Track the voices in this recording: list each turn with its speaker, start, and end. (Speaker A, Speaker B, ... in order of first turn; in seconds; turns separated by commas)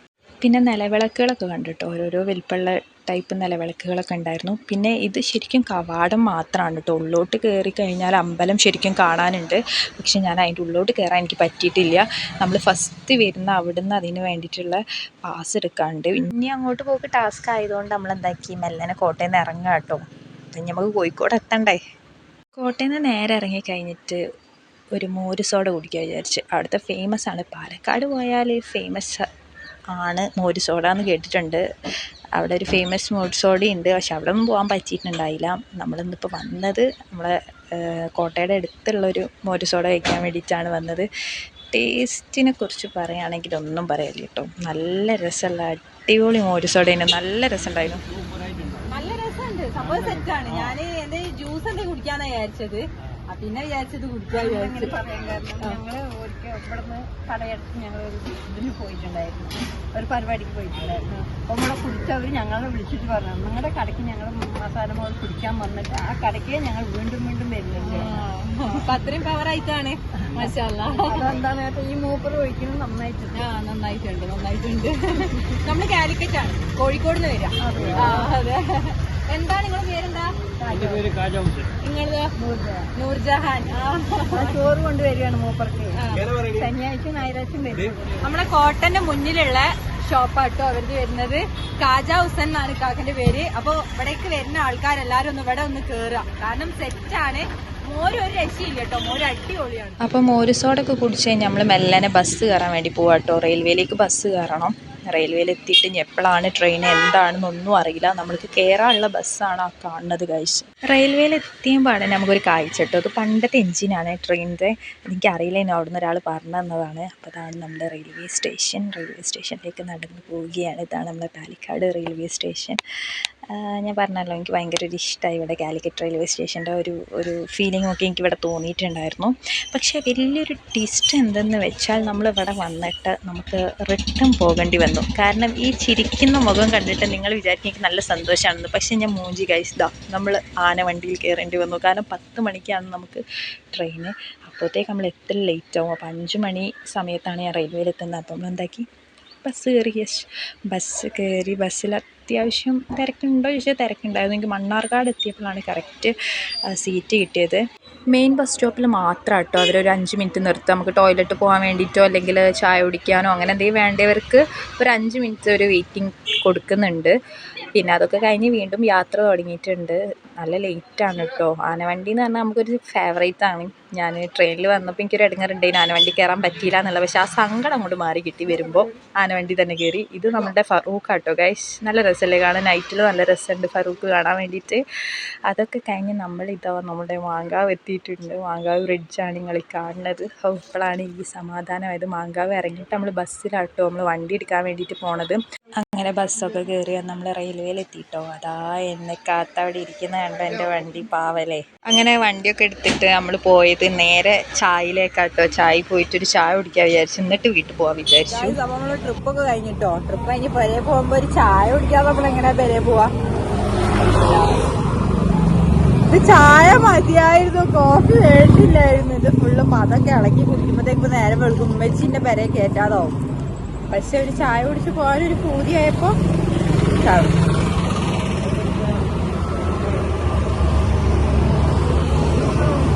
Speaker A: 0.4-21.8, Speaker A: 22.6-24.2, Speaker A: 24.9-29.2, Speaker A: 29.9-31.6, Speaker A: 32.4-41.1, Speaker A: 41.7-48.0, Speaker B: 48.9-55.0, Speaker C: 54.3-68.2, Speaker B: 67.8-71.4, Speaker C: 71.1-73.5, Speaker B: 73.3-80.3, Speaker C: 77.6-78.3, Speaker C: 80.6-81.2, Speaker B: 81.8-82.3, Speaker C: 82.4-82.9, Speaker B: 83.0-84.6, Speaker C: 84.3-88.2, Speaker B: 86.0-86.3, Speaker B: 88.2-100.0, Speaker A: 100.0-122.8, Speaker A: 123.5-143.2, Speaker A: 143.7-148.9, Speaker A: 149.4-156.1, Speaker A: 156.7-157.6, Speaker A: 158.1-167.1, Speaker A: 167.8-184.8, Speaker A: 185.5-208.6, Speaker B: 208.3-213.1, Speaker B: 214.1-214.6, Speaker B: 216.1-223.2, Speaker B: 223.9-226.2, Speaker B: 227.0-227.4